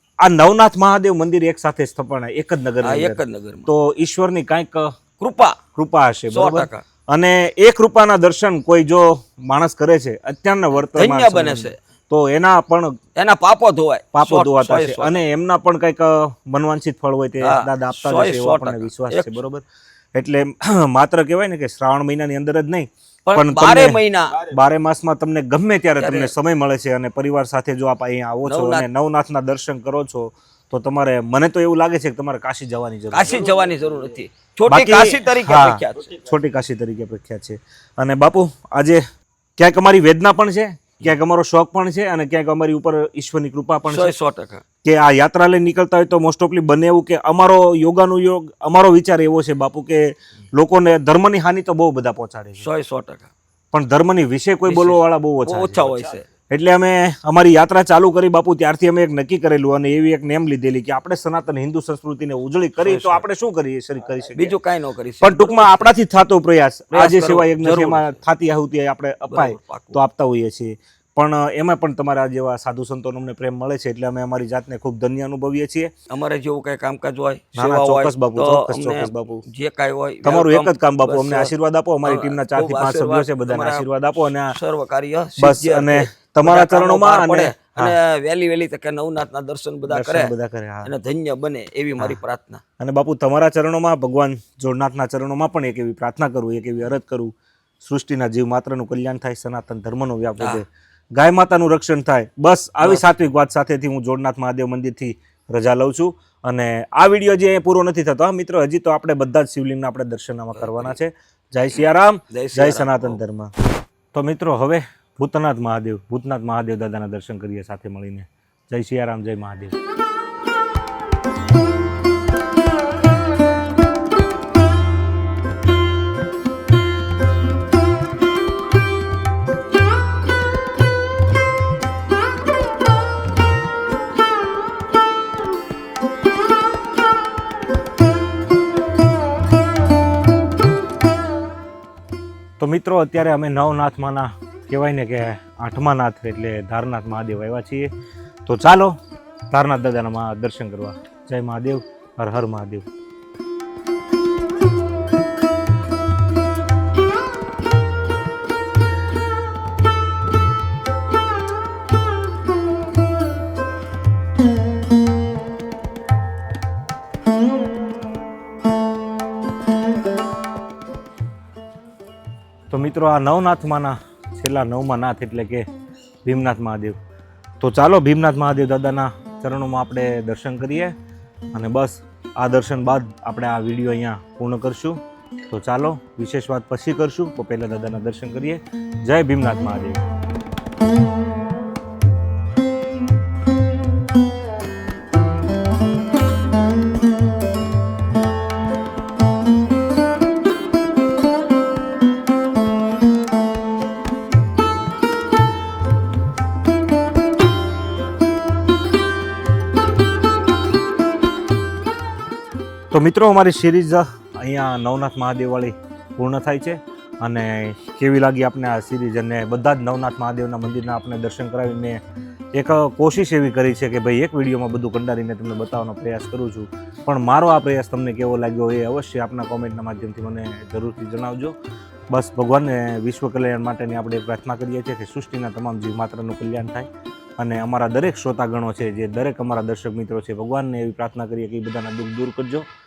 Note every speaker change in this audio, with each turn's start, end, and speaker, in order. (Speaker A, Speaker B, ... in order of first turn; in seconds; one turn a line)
Speaker A: 0.2-4.9
Speaker B: 2.8-3.7
Speaker B: 5.2-5.6
Speaker A: 5.8-13.0
Speaker B: 6.3-6.8
Speaker B: 10.8-11.8
Speaker B: 13.2-15.2
Speaker A: 14.1-19.6
Speaker B: 17.4-19.4
Speaker A: 20.1-33.5
Speaker B: 23.3-24.5
Speaker B: 26.0-26.3
Speaker B: 28.5-28.9
Speaker B: 33.1-36.2
Speaker A: 34.7-39.0
Speaker A: 39.6-44.1
Speaker B: 43.9-44.6
Speaker A: 44.8-52.7
Speaker B: 52.6-53.3
Speaker A: 53.7-64.5
Speaker B: 54.7-56.3
Speaker B: 62.8-63.2
Speaker B: 64.3-65.9
Speaker A: 65.2-75.9
Speaker B: 66.9-68.2
Speaker B: 69.3-70.0
Speaker B: 76.1-81.5
Speaker A: 77.6-79.4
Speaker A: 80.2-84.5
Speaker B: 82.0-90.3
Speaker A: 85.4-88.0
Speaker A: 89.9-90.9
Speaker B: 90.8-92.6
Speaker A: 92.8-113.5
Speaker B: 110.5-111.0
Speaker B: 112.3-113.2
Speaker A: 114.1-119.8
Speaker A: 142.6-147.9
Speaker A: 148.5-148.9
Speaker A: 149.5-152.8
Speaker A: 172.7-175.7
Speaker A: 176.2-177.0
Speaker A: 177.6-180.9
Speaker A: 181.5-185.0
Speaker A: 185.5-190.0
Speaker A: 212.9-222.0
Speaker A: 222.6-231.6
Speaker A: 232.1-236.9
Speaker A: 237.4-242.7